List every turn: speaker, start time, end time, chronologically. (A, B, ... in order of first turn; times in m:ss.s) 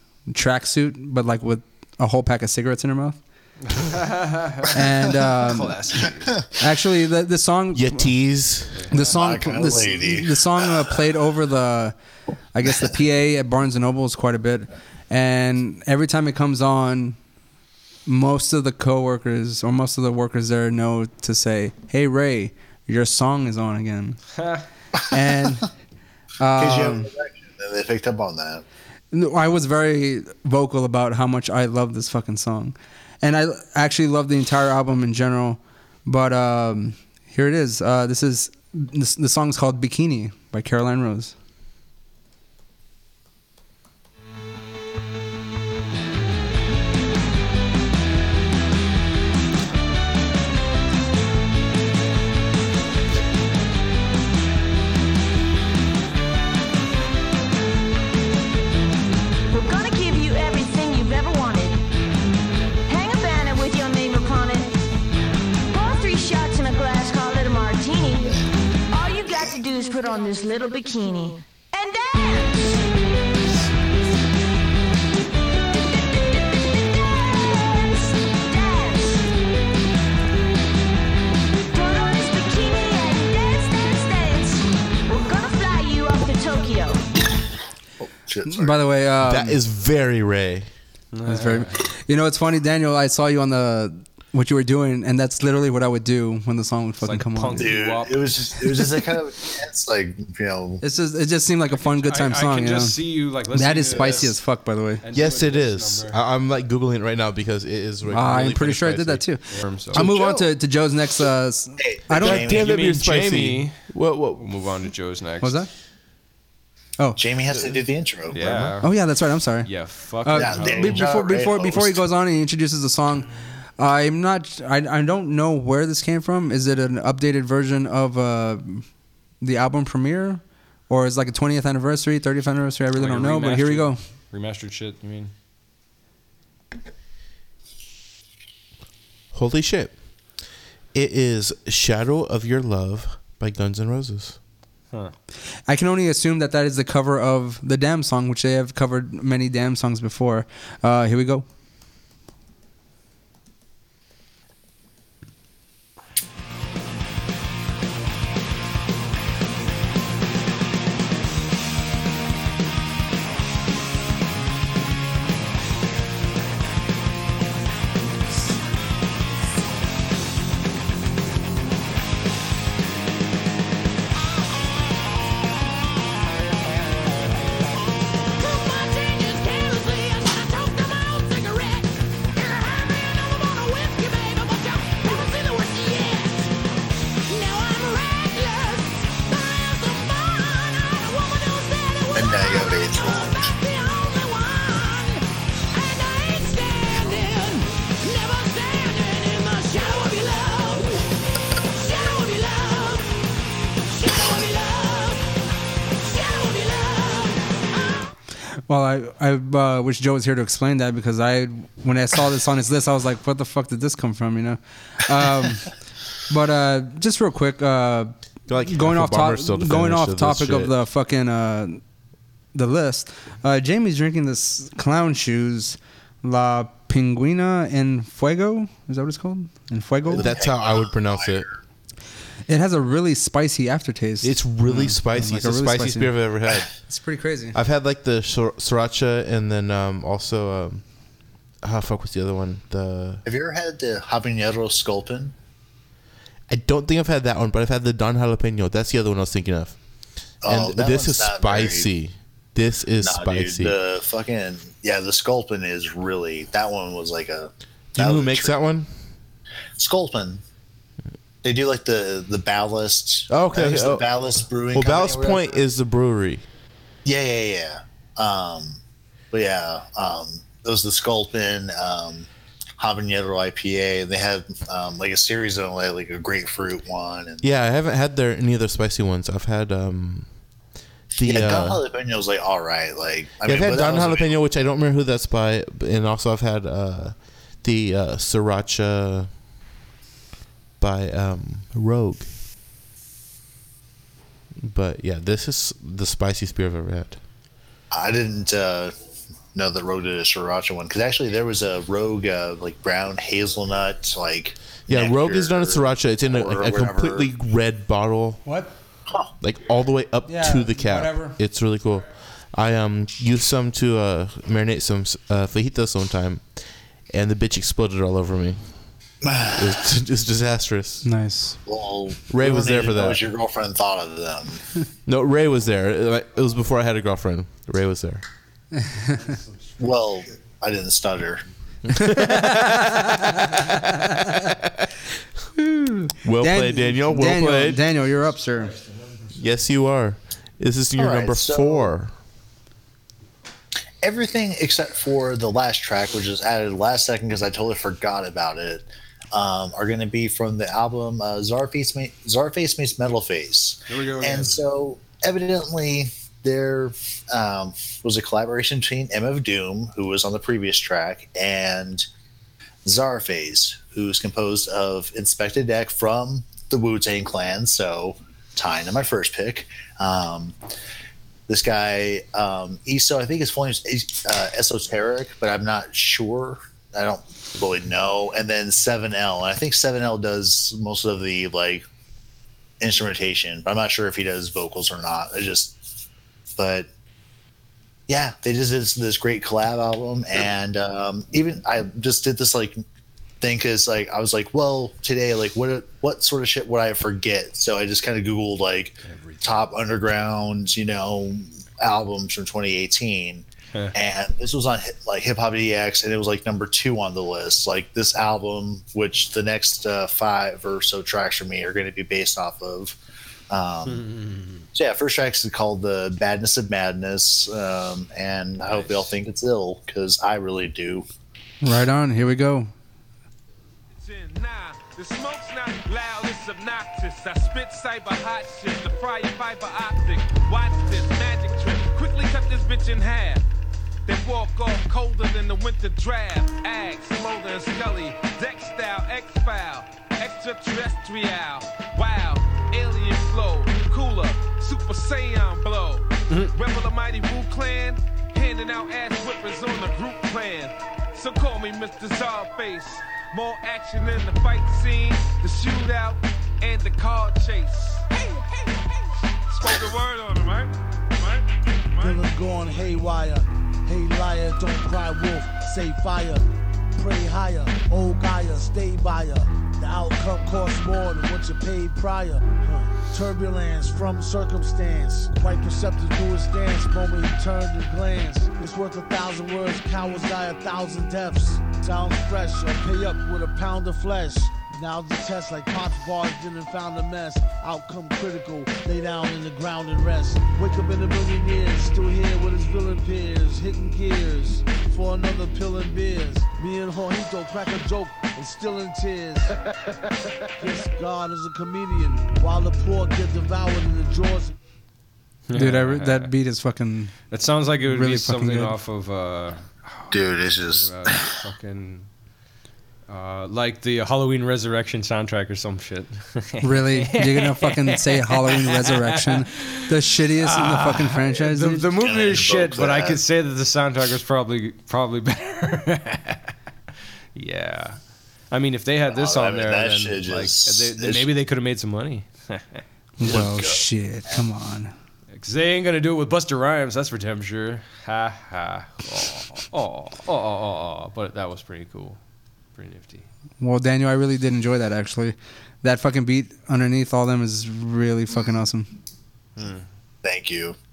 0:00.3-0:03.2 A
0:03.6-0:06.4 B
0:04.7-0:05.8 A
0:06.6-0:08.1 A
0:07.7-0:08.9 C
0:08.9-0:11.9 A
0:09.0-0:10.7 D
0:12.5-0:17.2 A
0:18.0-0:24.2 A
0:24.4-0:24.6 B
0:25.1-0:25.7 A
0:26.4-0:27.1 A
0:26.6-0:28.6 D
0:29.1-0:41.3 A
0:59.5-1:01.8 E
1:02.8-1:04.8 E
1:05.7-1:12.8 E
1:16.4-1:19.3 E
1:21.6-1:27.0 E
1:28.0-1:28.8 D
1:28.4-1:29.6 A
1:29.2-1:30.7 C
1:31.1-1:31.8 B
1:31.3-1:37.7 A
1:37.0-1:38.3 B
1:37.6-1:40.8 D
1:40.8-1:43.0 A
1:41.8-1:44.4 B
1:43.5-1:45.0 A
1:45.0-1:46.2 B
1:45.1-1:49.2 C
1:48.1-1:52.4 A
1:49.5-1:50.0 B
1:49.9-1:50.5 D
1:51.8-1:52.7 D
1:52.1-1:54.5 C
1:52.4-1:55.6 B
1:55.4-1:55.7 A
1:57.2-1:58.8 D
1:58.3-1:58.9 B
1:58.8-1:59.7 A
1:59.6-2:01.0 B
2:00.2-2:03.3 A
2:00.3-2:02.0 D
2:03.8-2:08.8 A
2:09.4-2:14.0 A
2:12.9-2:15.3 B
2:19.3-2:20.0 C
2:20.9-2:24.4 C
2:25.7-2:31.4 A
3:05.2-3:06.1 E
3:07.4-3:12.1 E
3:12.1-3:13.5 D
3:15.8-3:16.6 E
3:28.7-3:35.7 A
3:36.3-3:41.8 A
3:38.5-3:40.8 C
3:42.5-3:50.3 A
3:50.1-3:51.6 D
3:50.1-3:51.5 C
3:52.5-3:56.2 A
3:54.2-3:56.7 C
3:56.8-3:57.6 A
3:57.5-4:00.8 C
4:01.6-4:03.2 C
4:03.2-4:05.3 D
4:06.5-4:09.8 C
4:10.4-4:13.8 C
4:10.4-4:11.9 D
4:13.0-4:18.5 D
4:17.9-4:18.9 C
4:19.8-4:20.4 D
4:21.4-4:25.6 D
4:23.3-4:24.1 C
4:24.7-4:26.4 C
4:27.0-4:28.8 D
4:29.3-4:32.3 D
4:32.8-4:37.4 D
4:37.4-4:40.5 C
4:41.1-4:41.8 C
4:41.2-4:44.3 D
4:43.4-4:49.3 C
4:50.8-4:52.3 C
4:54.6-4:57.2 C
4:57.9-4:58.9 D
4:59.5-5:07.3 D
5:04.9-5:08.4 C
5:08.4-5:08.7 A
5:09.4-5:18.8 C
5:10.3-5:11.4 A
5:19.2-5:19.8 D
5:19.6-5:21.0 C
5:21.0-5:21.6 A
5:21.6-5:24.6 D
5:22.3-5:23.2 C
5:25.0-5:28.2 C
5:28.8-5:29.2 A
5:29.8-5:31.4 D
5:31.9-5:32.8 C
5:32.1-5:33.2 A
5:35.6-5:38.8 A
5:36.2-5:37.8 C
5:39.3-5:42.1 C
5:41.0-5:41.9 D
5:44.0-6:02.0 D
5:53.9-5:54.6 B
6:02.8-6:10.5 D
6:11.5-6:21.8 D
6:22.8-6:25.8 D
6:26.6-6:26.9 D
6:28.1-6:32.8 D
6:33.4-6:53.0 D
6:39.0-6:39.7 B
6:53.5-6:54.1 D
6:53.8-6:54.6 B
6:54.7-7:01.0 D
6:58.6-6:59.1 B
7:01.6-7:02.7 A
7:03.9-7:13.4 F
7:14.0-7:38.7 F
7:39.5-7:42.2 F
7:42.0-7:46.4 G
7:47.0-8:19.5 G
8:20.6-8:24.6 G
8:25.5-8:26.3 B
8:25.5-8:27.1 A
8:27.3-8:32.1 B
8:27.8-8:28.7 A
8:30.1-8:31.2 D
8:33.1-8:39.8 B
8:36.6-8:41.9 A
8:40.4-8:46.5 B
8:42.0-8:43.2 D
8:47.3-8:48.0 B
8:48.5-8:52.8 B
8:49.1-8:51.2 D
8:53.2-8:54.9 A
8:53.2-8:53.8 D
8:55.3-9:02.2 B
9:02.7-9:03.3 B
9:03.6-9:08.9 A
9:09.6-9:09.8 B
9:10.2-9:10.7 D